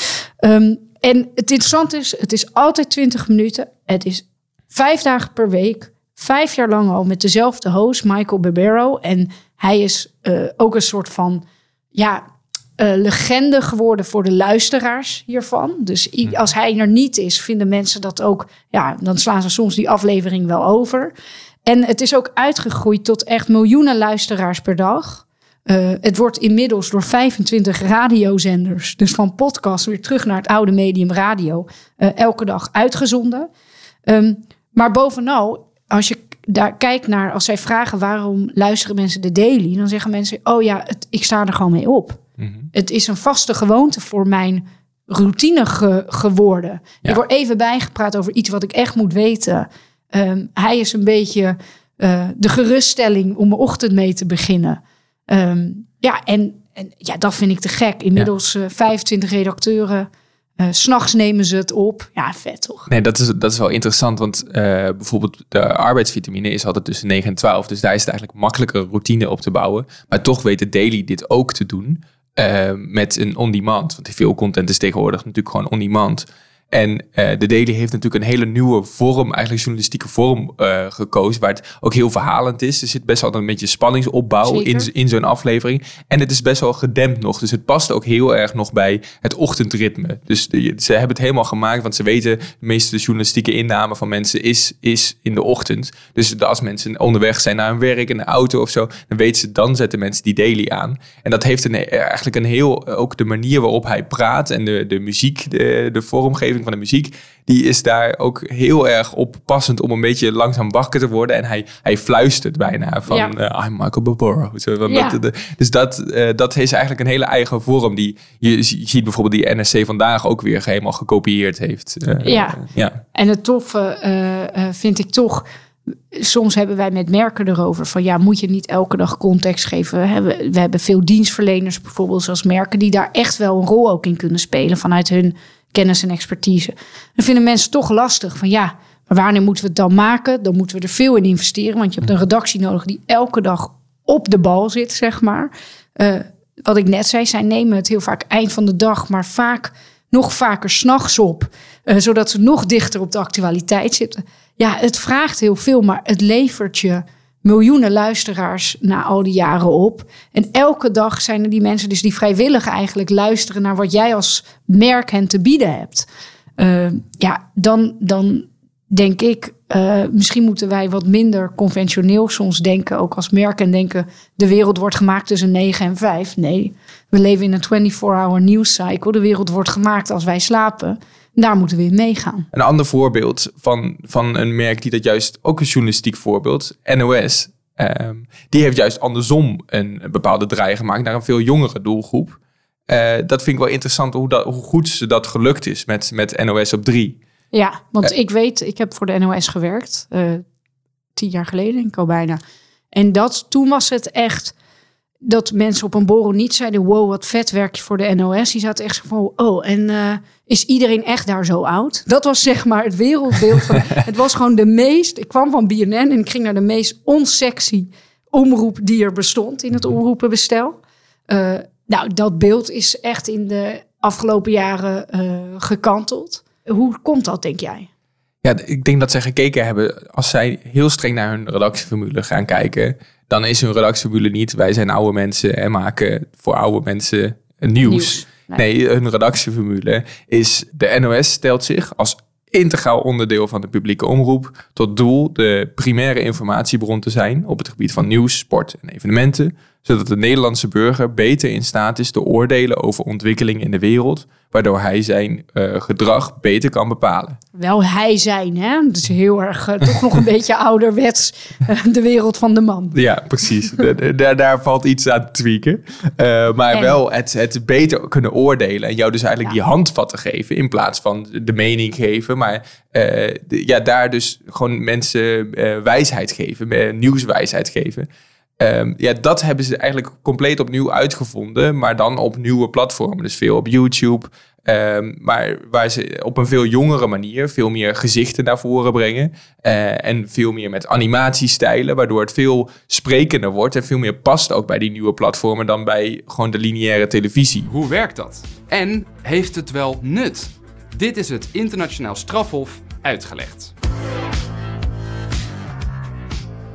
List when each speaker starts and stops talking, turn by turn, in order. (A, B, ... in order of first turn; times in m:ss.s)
0:00.4-0:12.2 A
0:12.8-0:21.1 A
0:21.6-0:33.5 A
0:34.0-0:42.2 A
0:42.4-0:42.7 B
0:42.7-1:00.1 A
1:00.6-1:02.9 A
1:02.9-2:03.0 B
1:24.4-1:24.9 A
1:53.1-1:53.3 A
1:54.9-1:55.2 A
2:02.2-2:02.6 A
2:03.1-2:05.4 A
2:06.1-2:46.1 A
2:46.6-3:02.5 A
3:02.5-3:12.4 B
3:12.9-3:17.2 B
3:17.5-3:20.4 A
3:21.2-3:22.4 A
3:22.9-3:24.5 A
3:25.2-3:47.9 A
3:48.4-4:17.4 B
3:57.8-3:58.6 A
4:17.5-4:23.0 A
4:22.9-4:38.1 B
4:26.7-4:27.0 A
4:38.6-4:57.7 B
4:57.6-5:03.7 C